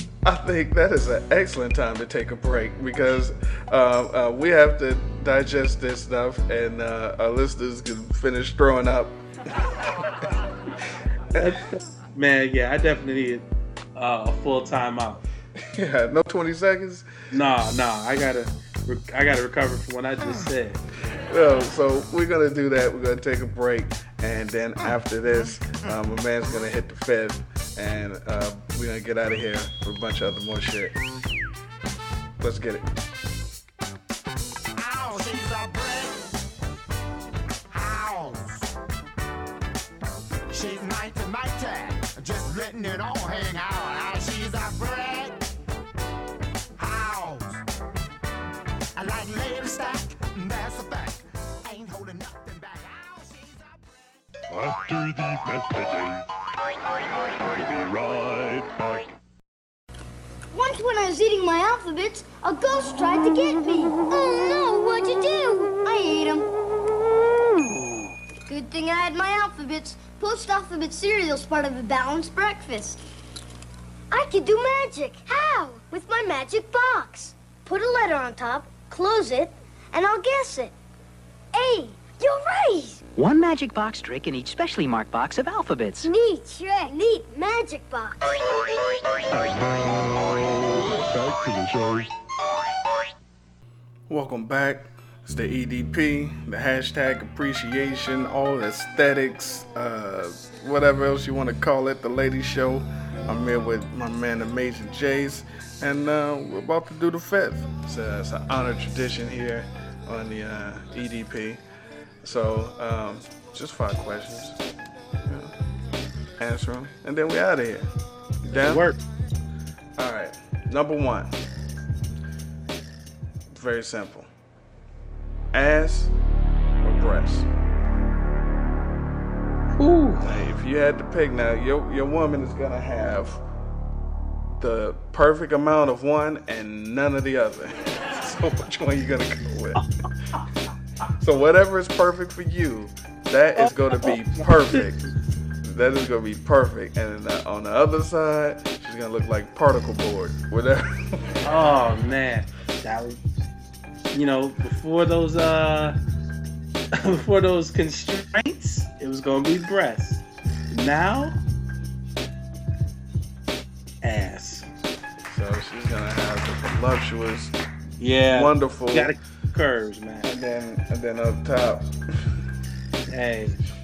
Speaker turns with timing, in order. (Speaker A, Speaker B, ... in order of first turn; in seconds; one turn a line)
Speaker A: 0.2-9.2
Speaker B: 11.4-15.2
Speaker A: 15.7-17.1
Speaker B: 17.3-20.8
Speaker A: 21.3-30.9
Speaker A: 32.4-32.9
Speaker C: 34.8-36.3
Speaker C: 37.7-38.7
Speaker C: 40.5-45.4
Speaker C: 46.8-47.6
Speaker C: 49.0-54.0
Speaker D: 54.5-56.3
Speaker D: 57.5-59.0
Speaker E: 60.5-66.5
Speaker E: 68.5-73.0
Speaker E: 74.1-80.7
Speaker E: 81.5-83.0
Speaker F: 83.2-86.0
Speaker E: 86.0-88.2
Speaker D: 89.3-92.1
Speaker A: 94.1-111.6
Speaker A: 112.2-114.6
Speaker A: 115.2-115.5
Speaker A: 116.4-117.9
Speaker A: 118.4-118.9
Speaker B: 118.5-119.0
Speaker A: 120.0-121.3
Speaker A: 123.5-124.3
Speaker A: 125.5-126.1
Speaker A: 126.8-127.5
Speaker B: 129.8-130.2
Speaker A: 130.2-133.4
Speaker A: 134.6-139.8
Speaker A: 141.2-145.0
Speaker B: 143.6-145.1
Speaker A: 145.6-151.5
Speaker B: 151.4-153.2
Speaker B: 154.1-156.0
Speaker B: 157.0-161.4
Speaker B: 164.0-164.7
Speaker A: 165.3-167.5
Speaker B: 168.0-170.3
Speaker A: 168.3-169.2
Speaker A: 170.2-171.9
Speaker B: 173.1-173.6